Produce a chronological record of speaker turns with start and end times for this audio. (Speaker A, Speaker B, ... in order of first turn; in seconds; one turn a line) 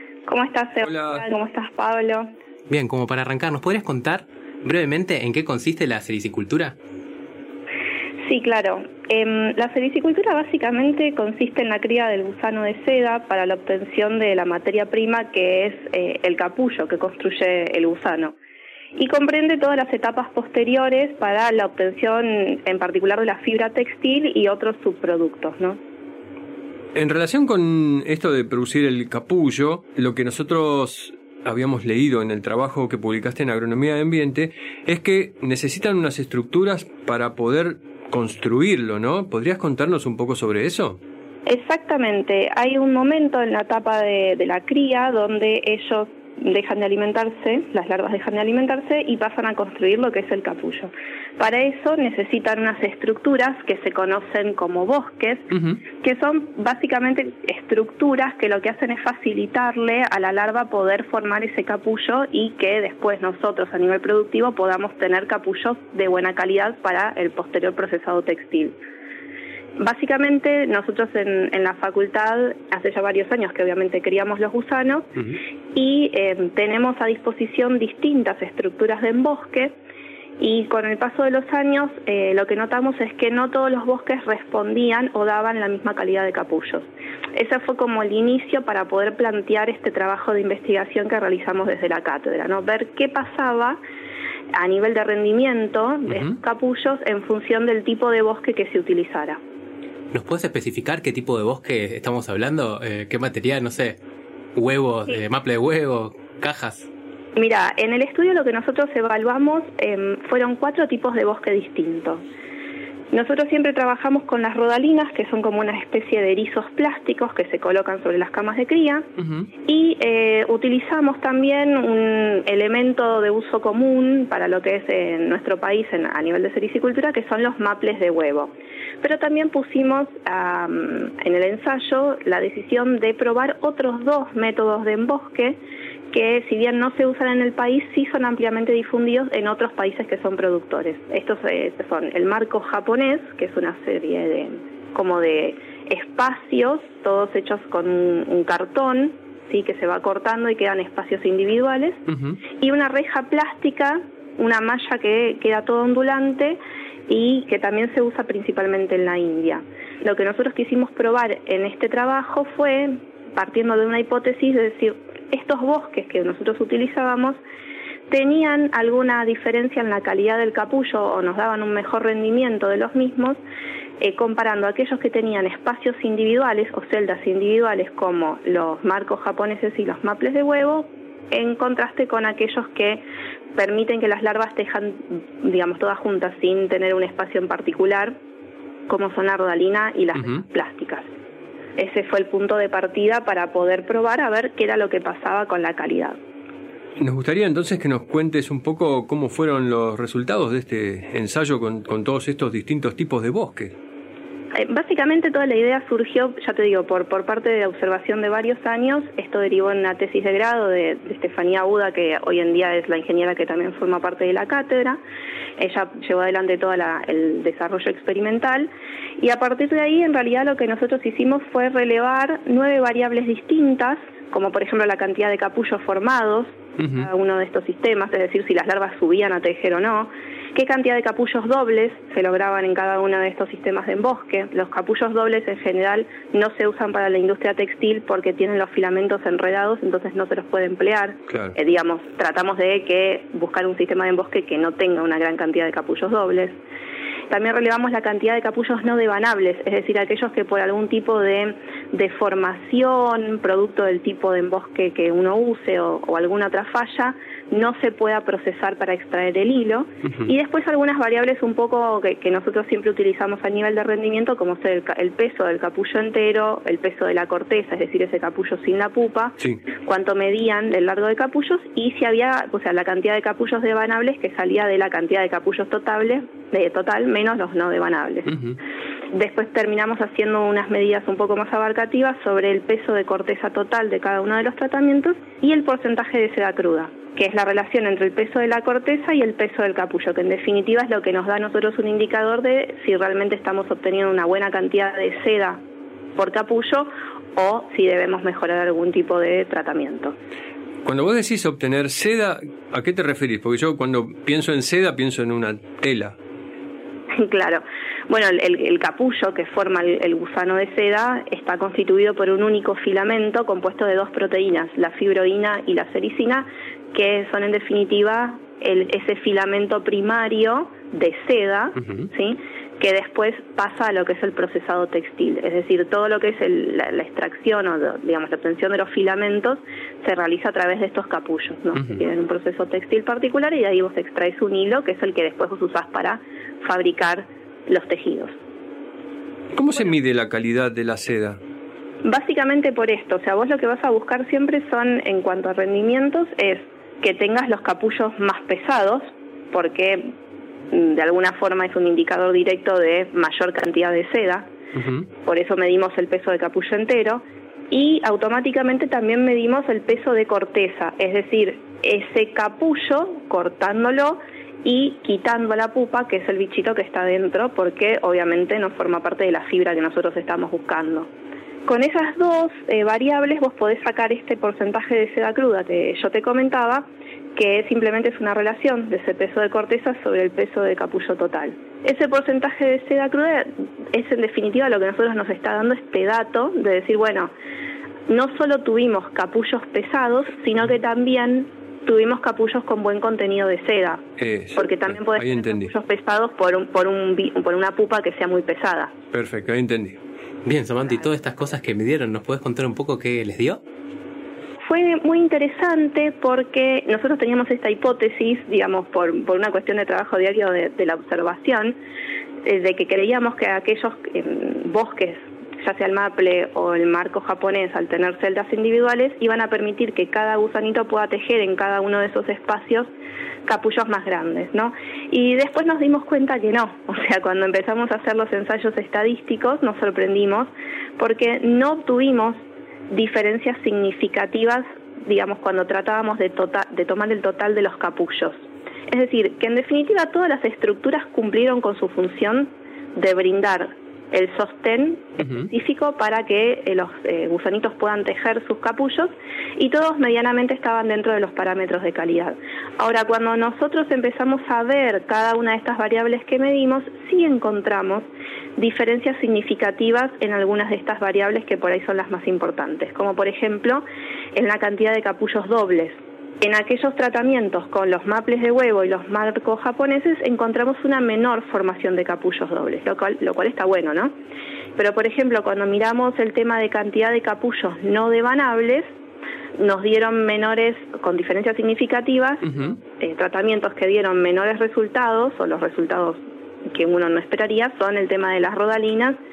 Speaker A: 0.3-2.3
Speaker B: 0.8-1.2
Speaker C: 2.7-6.8
Speaker A: 8.2-18.4
Speaker A: 19.0-25.8
Speaker B: 26.9-41.0
Speaker A: 41.5-68.8
Speaker B: 55.5-55.8
Speaker A: 69.8-79.8
Speaker A: 80.4-93.8
Speaker A: 94.5-99.4
Speaker C: 100.1-104.0
Speaker C: 104.5-106.9
Speaker A: 107.4-112.2
Speaker A: 113.1-119.1
Speaker B: 119.2-119.5
Speaker A: 119.7-135.6
Speaker A: 136.1-152.0
Speaker B: 152.1-152.4
Speaker A: 152.6-167.4
Speaker A: 168.1-173.4
Speaker A: 174.0-183.0
Speaker A: 183.6-188.2
Speaker A: 188.9-191.1
Speaker A: 191.8-196.2
Speaker B: 197.0-203.8
Speaker A: 204.6-215.0
Speaker A: 215.6-246.6
Speaker B: 226.8-227.1
Speaker B: 241.3-241.5
Speaker A: 247.3-278.4
Speaker B: 278.3-278.6
Speaker A: 279.1-295.6
Speaker A: 296.2-300.1
Speaker B: 300.8-306.2
Speaker A: 307.2-338.4
Speaker B: 339.5-341.4
Speaker A: 342.0-350.1
Speaker A: 350.7-354.5
Speaker B: 354.8-355.1
Speaker A: 355.3-371.1
Speaker A: 371.7-387.3
Speaker A: 388.1-398.9
Speaker B: 394.2-395.7
Speaker B: 399.1-400.0
Speaker C: 400.4-403.6
Speaker A: 404.6-411.8
Speaker A: 412.4-422.9
Speaker A: 423.5-463.8
Speaker A: 464.4-474.1
Speaker A: 474.8-478.9
Speaker A: 479.6-489.2
Speaker B: 482.5-482.8